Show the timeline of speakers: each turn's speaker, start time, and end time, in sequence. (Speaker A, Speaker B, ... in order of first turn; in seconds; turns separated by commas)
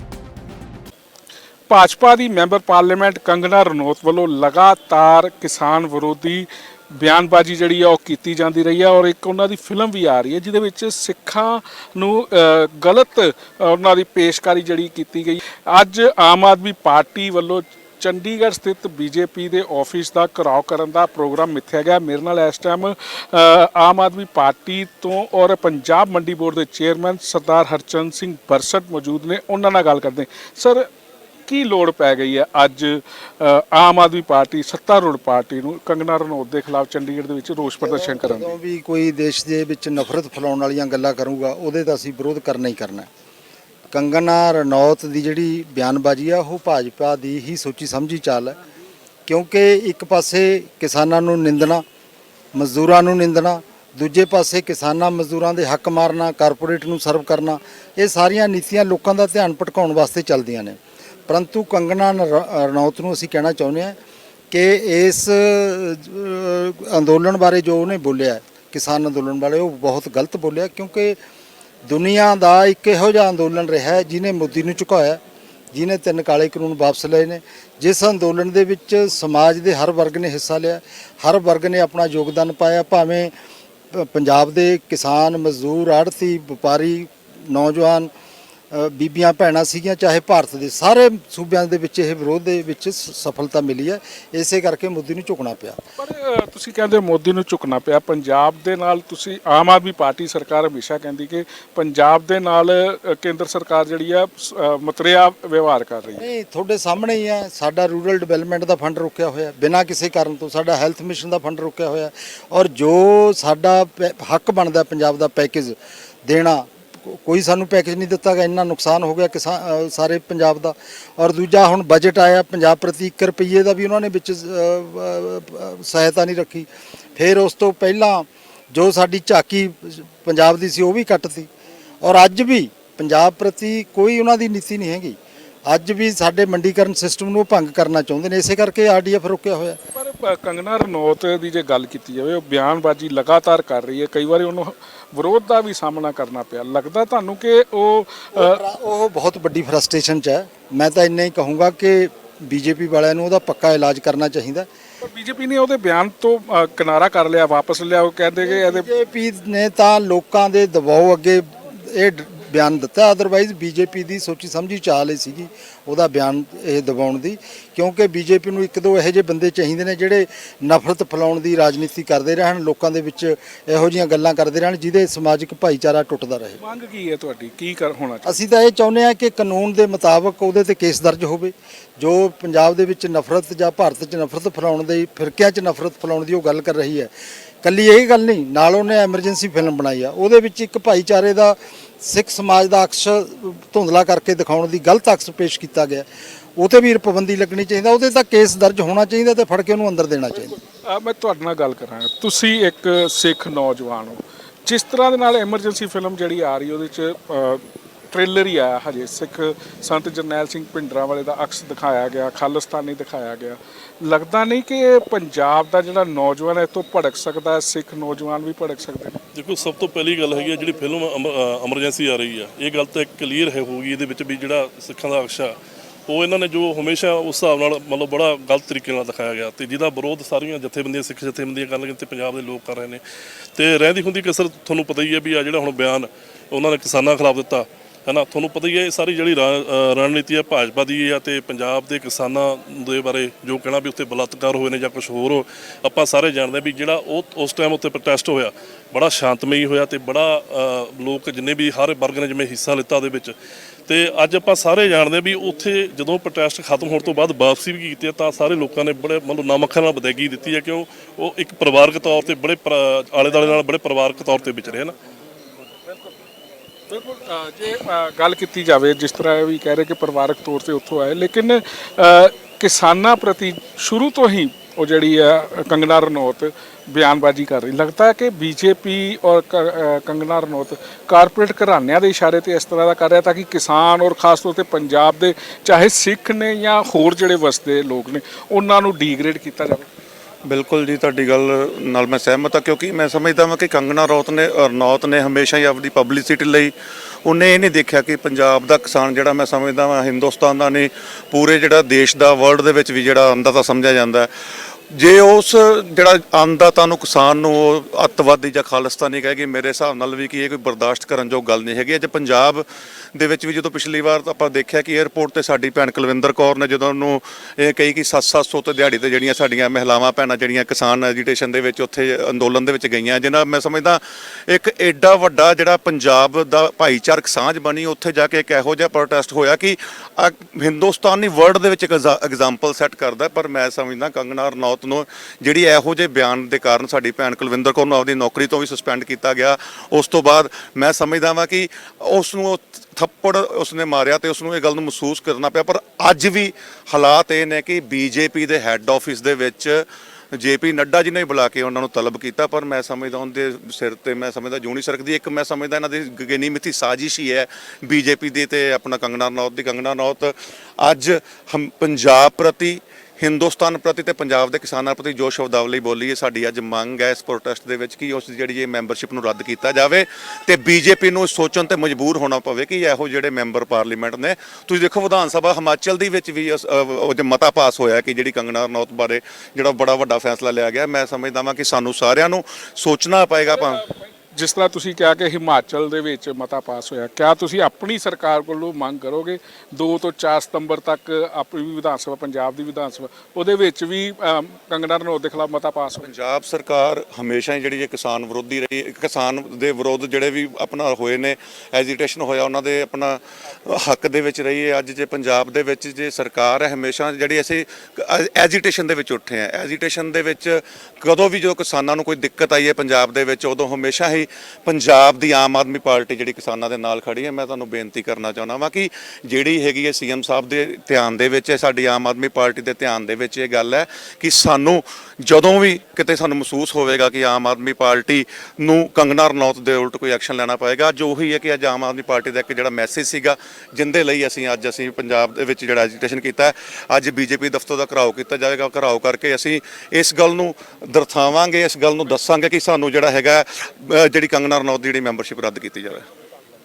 Speaker A: 1.7-30.9, Speaker A: 31.5-38.6, Speaker B: 37.8-43.1, Speaker B: 43.9-48.6, Speaker B: 49.3-51.8, Speaker B: 52.5-60.8, Speaker B: 61.3-64.0, Speaker B: 64.5-71.2, Speaker B: 71.9-75.2, Speaker B: 75.7-83.3, Speaker B: 83.9-88.1, Speaker B: 88.7-95.8, Speaker A: 96.0-106.2, Speaker B: 106.2-131.5, Speaker B: 132.0-139.8, Speaker A: 139.9-148.6, Speaker B: 148.3-154.7, Speaker A: 155.0-158.9, Speaker B: 158.4-176.6, Speaker A: 176.6-178.4, Speaker B: 178.2-187.1, Speaker B: 187.6-196.1, Speaker B: 196.6-200.6, Speaker A: 200.8-219.2, Speaker C: 219.3-225.6, Speaker C: 226.1-233.0, Speaker C: 233.6-253.3, Speaker C: 253.9-264.9, Speaker A: 266.9-289.9, Speaker D: 290.5-296.7, Speaker D: 297.2-304.3, Speaker D: 304.9-383.8, Speaker A: 383.5-396.1, Speaker D: 396.0-446.1